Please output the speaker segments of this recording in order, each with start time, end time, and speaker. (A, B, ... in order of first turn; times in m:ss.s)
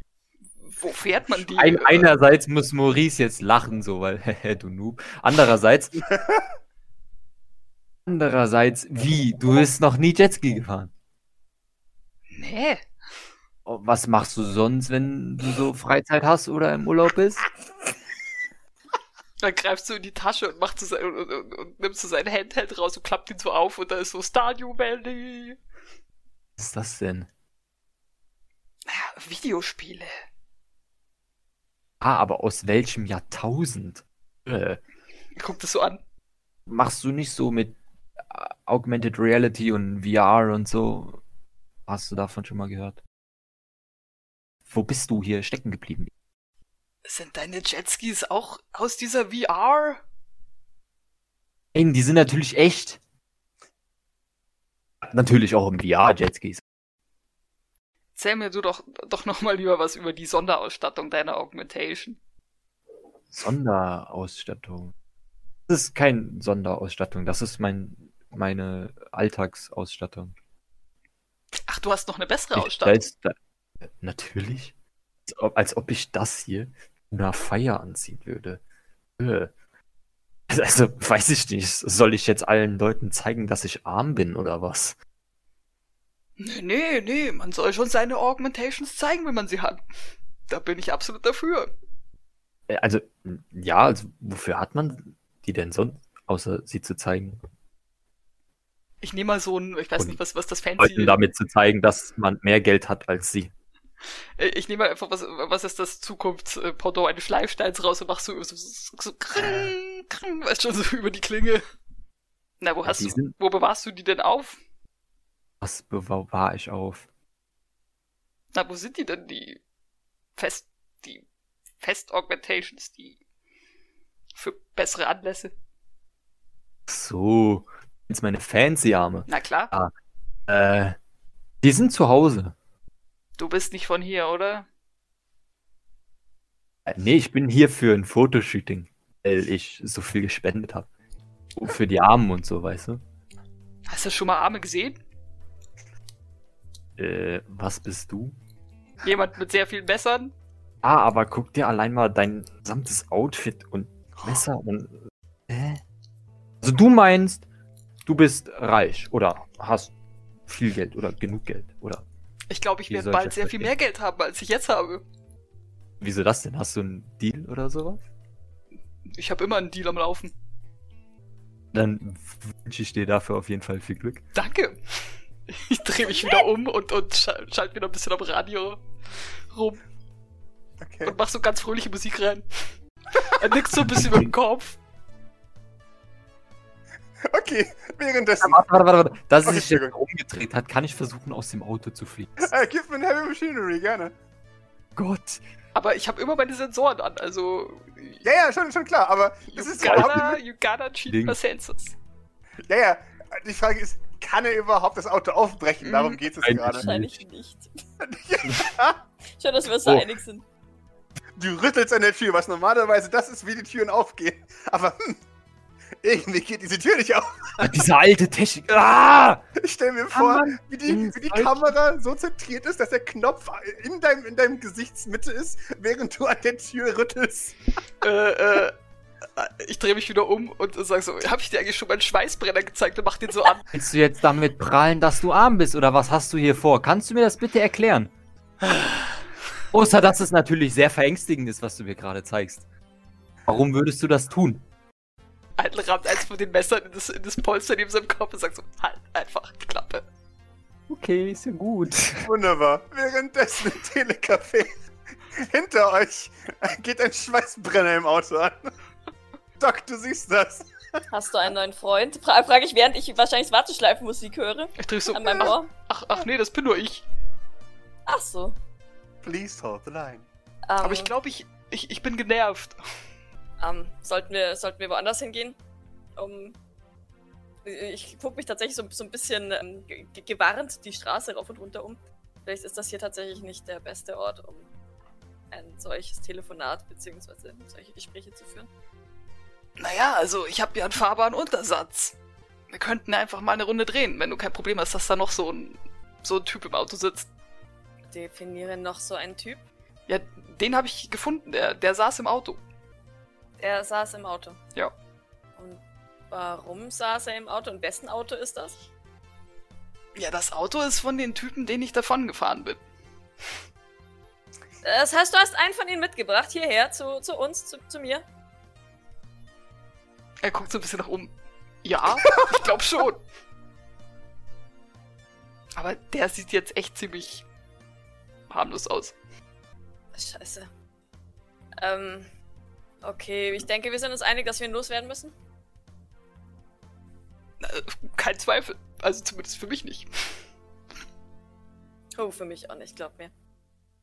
0:00.6-0:02.1 A
0:01.5-0:06.1 B
0:06.2-0:06.4 C
0:08.1-0:10.9 B
0:12.3-0:12.8 A
0:13.7-0:17.5 B
0:19.4-0:25.6 A
0:26.6-0:27.3 B
0:28.9-0:30.1 A
0:32.0-0:34.8 B
0:35.4-0:36.0 A
0:36.7-0:37.8 B
0:38.3-0:41.2 B
0:41.9-0:43.0 B
0:44.7-0:46.1 B
0:47.1-0:50.0 A
0:51.7-0:53.0 B
0:55.1-0:56.6 B
0:58.2-1:02.2 A
1:03.3-1:04.9 B
1:05.7-1:10.4 B
1:11.7-1:13.0 A
1:12.6-1:14.7 B
1:15.3-1:18.6 B
1:19.2-1:19.5 B
1:20.5-1:25.0 B
1:26.4-1:29.8 A
1:30.5-1:31.7 A
1:32.7-1:37.4 B
1:39.0-1:41.2 A
1:40.8-1:43.5 B
1:44.4-1:51.6 A
1:52.6-1:54.6 A
1:52.8-1:53.4 B
1:55.6-1:57.1 B
1:58.5-1:59.6 A
2:00.4-2:01.2 A
2:01.8-2:03.2 A
2:04.4-2:05.5 A
2:06.9-2:09.9 B
2:09.3-2:09.7 A
2:10.5-2:11.0 B
2:11.6-2:12.6 B
2:13.4-2:14.7 A
2:16.9-2:20.9 B
2:21.6-2:23.0 B
2:23.9-2:25.0 A
2:27.0-2:28.4 B
2:29.0-2:30.3 A
2:30.8-2:35.8 B
2:36.6-2:37.5 B
2:38.1-2:39.9 B
2:40.5-2:42.0 B
2:42.5-2:45.0 A
2:42.9-2:43.7 B
2:46.0-2:48.0 B
2:49.1-2:50.3 A
2:51.7-2:54.2 B
2:54.3-2:54.8 A
2:55.5-2:58.8 A
2:59.5-2:59.8 A
3:00.8-3:01.2 C
3:01.0-3:02.4 A
3:03.1-3:04.8 A
3:03.8-3:04.3 B
3:07.2-3:08.6 C
3:08.4-3:12.5 B
3:09.4-3:09.9 C
3:12.4-3:14.1 C
3:15.0-3:15.4 B
3:15.8-3:18.2 A
3:18.2-3:20.4 C
3:19.5-3:22.0 A
3:19.8-3:20.4 B
3:21.1-3:21.4 B
3:22.7-3:26.9 C
3:25.8-3:26.2 A
3:26.4-3:27.2 B
3:26.7-3:27.7 D
3:28.0-3:29.0 C
3:28.4-3:28.7 B
3:29.4-3:30.4 D
3:29.8-3:30.1 B
3:31.4-3:35.2 C
3:36.0-3:37.8 C
3:37.6-3:39.4 B
3:39.6-3:47.6 C
3:40.1-3:41.7 B
3:48.0-3:48.8 A
3:49.4-3:53.6 A
3:53.7-3:58.1 B
3:58.6-3:59.0 A
3:59.7-4:02.6 B
4:03.5-4:04.6 B
4:05.6-4:10.1 A
4:10.9-4:12.3 B
4:12.2-4:18.7 C
4:19.6-4:21.0 C
4:21.1-4:25.7 D
4:24.8-4:27.0 A
4:28.1-4:28.6 D
4:29.2-4:30.3 C
4:30.7-4:31.1 D
4:30.8-4:32.8 A
4:33.6-4:35.6 D
4:36.2-4:36.6 D
4:37.6-4:44.7 D
4:45.5-4:48.7 D
4:49.8-4:52.2 A
4:52.7-4:57.3 A
4:58.1-4:59.6 D
5:00.1-5:02.6 A
5:03.6-5:04.6 D
5:05.6-5:08.8 D
5:10.2-5:12.8 A
5:14.8-5:18.2 D
5:20.4-5:21.3 A
5:21.8-5:23.2 A
5:25.8-5:27.5 A
5:28.5-5:29.2 A
5:30.1-5:30.7 D
5:31.8-5:32.3 D
5:33.0-5:35.4 D
5:37.6-5:40.4 A
5:42.2-5:43.3 D